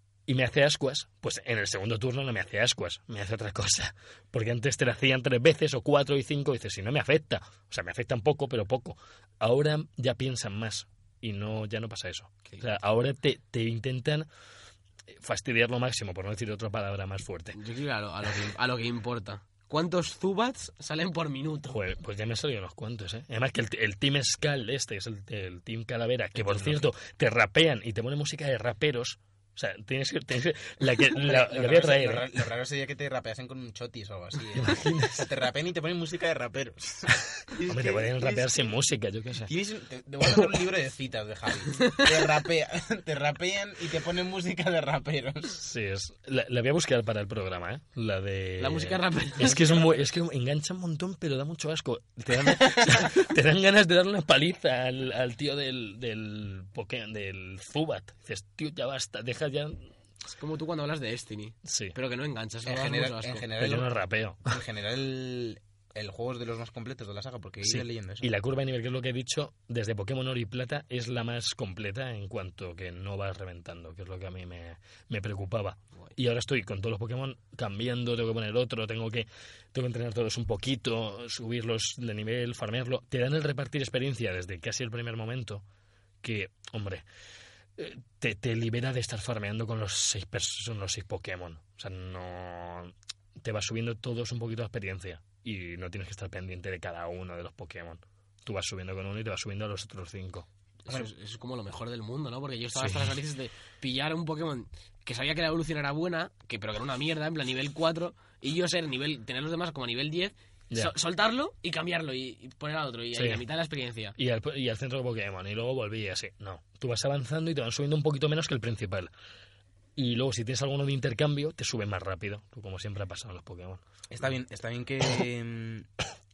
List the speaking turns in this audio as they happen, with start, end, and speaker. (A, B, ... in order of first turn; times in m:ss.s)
0:00.3-0:14.3 A
0:15.1-0:17.6 A
0:17.5-0:21.8 B
0:21.7-0:32.4 A
0:31.1-0:38.7 C
0:34.5-0:35.3 A
0:37.7-0:39.5 A
0:39.4-0:45.6 C
0:45.6-0:59.9 A
0:48.6-0:49.9 B
1:00.2-1:03.5 B
1:01.6-1:02.0 A
1:02.6-1:03.9 C
1:03.6-1:04.6 A
1:04.5-1:08.3 C
1:07.6-1:25.6 A
1:26.2-1:27.0 A
1:27.8-1:40.5 A
1:40.9-1:54.2 B
1:42.8-1:43.2 A
1:53.1-1:53.4 A
1:54.2-1:59.1 A
2:00.0-2:03.8 A
2:04.1-2:05.9 C